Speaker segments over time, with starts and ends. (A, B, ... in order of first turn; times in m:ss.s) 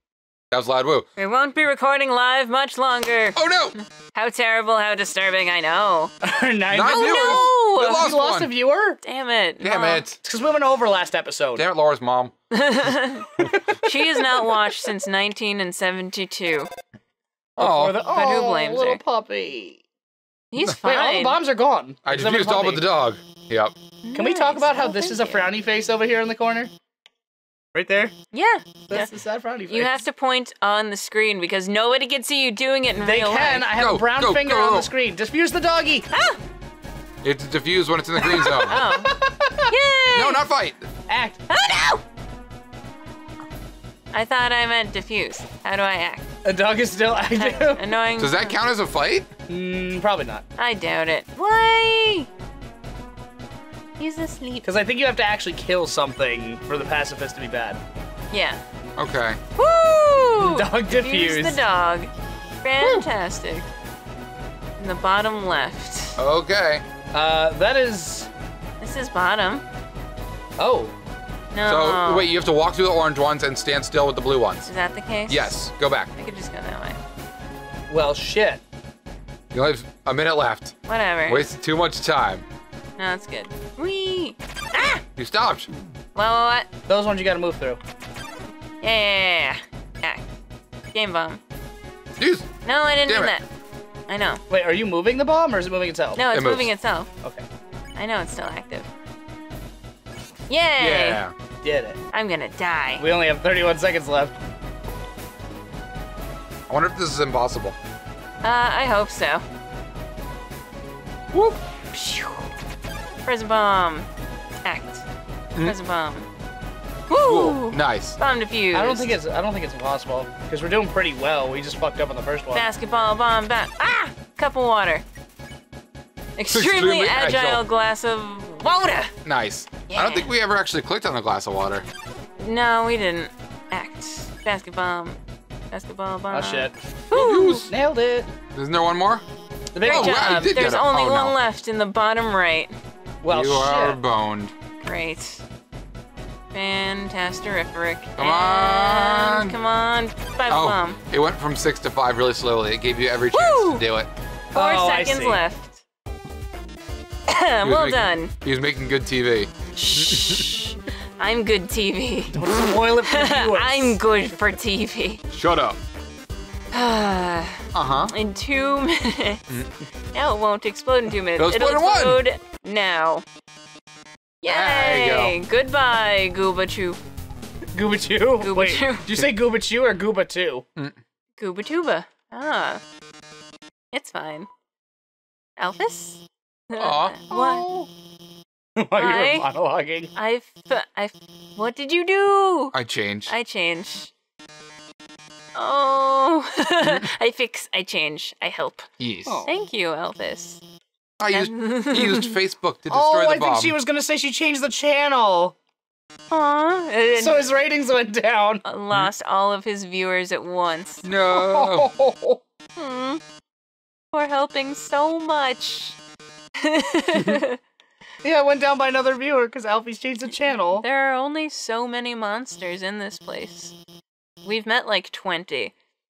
0:00.5-0:01.0 A
0:01.2-0:06.1 B
0:03.4-0:03.8 A
0:06.2-0:09.0 C
0:06.7-0:08.5 A
0:06.9-0:08.1 B
0:09.0-0:10.0 B
0:09.6-0:10.2 A
0:10.2-0:11.6 C
0:11.6-0:12.3 A
0:12.5-0:16.7 B
0:13.4-0:14.8 C
0:17.6-0:19.8 C
0:17.6-0:18.0 A
0:18.1-0:19.0 B
0:20.5-0:21.4 B
0:20.8-0:22.8 C
0:22.0-0:23.7 A
0:24.0-0:25.5 B
0:24.1-0:26.7 C
0:27.7-0:28.1 C
0:28.3-0:29.1 B
0:28.9-0:30.0 C
0:29.7-0:33.7 B
0:33.0-0:36.1 C
0:33.8-0:34.9 A
0:36.1-0:36.4 B
0:37.2-0:38.8 A
0:38.2-0:39.7 C
0:38.7-0:40.5 B
0:40.1-0:40.9 A
0:41.1-0:41.4 C
0:41.5-0:42.0 B
0:44.1-0:46.3 B
0:46.4-0:47.8 C
0:47.3-0:48.6 B
0:48.2-0:49.3 A
0:49.5-0:50.4 C
0:50.6-0:52.3 B
0:54.0-0:54.7 B
0:54.6-0:57.8 C
0:58.3-0:58.6 B
0:59.0-0:59.4 A
0:59.6-1:02.1 B
1:00.4-1:01.6 C
1:02.6-1:03.6 B
1:02.8-1:03.0 A
1:04.8-1:06.2 B
1:06.2-1:06.8 A
1:07.1-1:08.3 C
1:08.8-1:09.6 B
1:10.6-1:10.9 C
1:11.5-1:12.3 B
1:11.6-1:14.7 A
1:14.6-1:15.6 B
1:15.3-1:16.1 A
1:16.1-1:17.0 B
1:17.9-1:18.6 C
1:19.5-1:20.7 A
1:20.8-1:21.5 B
1:21.3-1:22.4 A
1:23.0-1:25.0 B
1:25.2-1:25.7 A
1:26.1-1:26.7 B
1:26.9-1:27.8 C
1:28.8-1:30.2 B
1:30.9-1:31.4 B
1:32.2-1:32.5 A
1:32.6-1:33.4 B
1:33.0-1:33.3 A
1:34.1-1:34.4 B
1:34.5-1:36.2 C
1:36.1-1:37.1 B
1:36.3-1:36.7 A
1:37.9-1:38.9 B
1:40.5-1:41.2 B
1:40.8-1:41.3 A
1:41.6-1:42.0 C
1:42.1-1:43.0 B
1:43.0-1:44.3 C
1:46.7-1:47.8 A
1:48.4-1:49.4 B
1:51.3-1:51.6 A
1:51.9-1:52.5 B
1:53.2-1:54.1 B
1:54.6-1:55.0 B
1:55.6-1:56.3 B
1:57.1-1:59.1 B
1:57.2-1:58.2 A
1:58.7-2:02.7 C
2:02.5-2:05.0 B
2:06.4-2:09.1 B
2:06.5-2:07.6 A
2:09.2-2:11.8 A
2:09.9-2:10.3 B
2:12.4-2:15.2 B
2:15.7-2:17.7 B
2:16.3-2:16.7 C
2:17.1-2:17.7 A
2:17.7-2:18.3 C
2:18.5-2:19.2 A
2:19.7-2:20.4 C
2:19.8-2:21.3 A
2:19.8-2:22.7 B
2:23.2-2:24.0 C
2:23.3-2:24.5 A
2:24.8-2:25.4 B
2:26.5-2:31.0 B
2:28.2-2:29.6 A
2:30.5-2:34.1 A
2:33.3-2:33.8 B
2:34.5-2:35.4 C
2:34.5-2:35.8 B
2:37.3-2:38.3 B
2:37.6-2:40.5 A
2:39.7-2:45.2 B
2:42.3-2:44.0 C
2:45.3-2:45.8 A
2:46.7-2:49.4 B
2:47.7-2:48.1 A
2:50.1-2:53.2 B
2:51.4-2:52.2 A
2:54.4-2:57.0 B
2:54.4-2:55.4 A
2:57.7-3:00.6 C
2:58.4-2:59.1 B
3:01.4-3:02.8 B
3:03.9-3:04.5 B
3:05.6-3:07.7 B
3:06.8-3:07.2 A
3:07.3-3:07.9 C
3:08.8-3:10.1 C
3:09.0-3:09.5 B
3:10.1-3:12.7 B
3:12.7-3:13.3 A
3:13.3-3:14.1 B
3:15.5-3:18.9 B
3:19.0-3:19.4 A
3:19.2-3:19.5 C
3:19.4-3:20.6 B
3:21.2-3:23.8 A
3:21.3-3:22.3 B
3:22.9-3:25.5 C
3:26.3-3:27.4 B
3:27.2-3:28.6 C
3:28.6-3:31.1 B
3:31.0-3:31.9 A
3:31.3-3:32.4 C
3:32.8-3:33.2 B
3:34.1-3:36.0 B
3:36.6-3:37.6 B
3:38.2-3:40.8 C
3:40.7-3:43.7 B
3:44.4-3:45.7 B